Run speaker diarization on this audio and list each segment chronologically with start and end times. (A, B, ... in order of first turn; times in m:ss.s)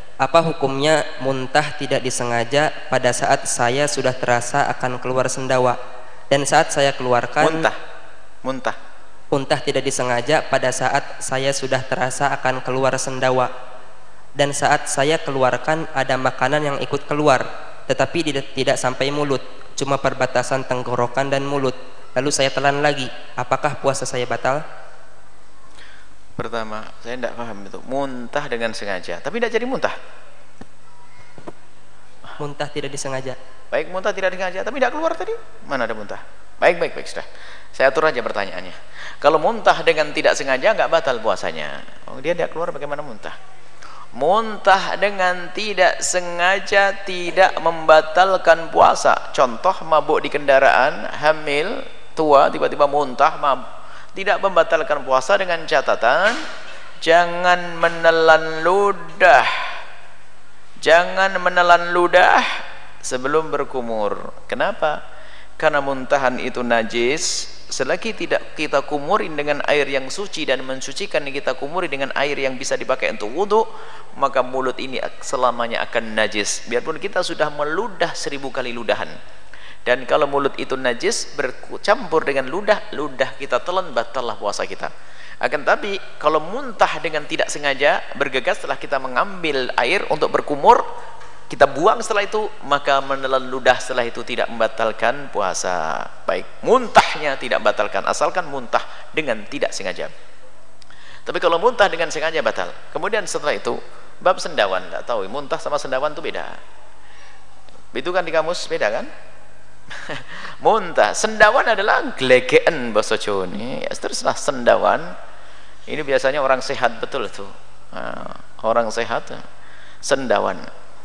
0:00.2-0:05.8 A
0:06.3-0:07.7 A
0:07.4-0:07.8 B
0:08.4-0:08.8 B
0:09.3-0:13.5 A
0:14.4-0:24.6 A
0:26.4-0:29.9 B
0:32.4-0:33.4 A
0:33.7-0:43.4 B
0:44.2-0:53.6 B
0:54.2-0:56.4 B
0:57.0-0:59.7 B
1:00.8-1:05.0 B
1:05.6-1:13.6 B
1:14.2-1:19.1 B
1:19.9-1:30.8 B
1:31.5-1:40.1 B
1:41.3-1:46.6 B
1:47.9-1:49.1 B
1:50.0-1:55.1 B
1:55.9-1:59.4 B
2:00.1-2:00.6 B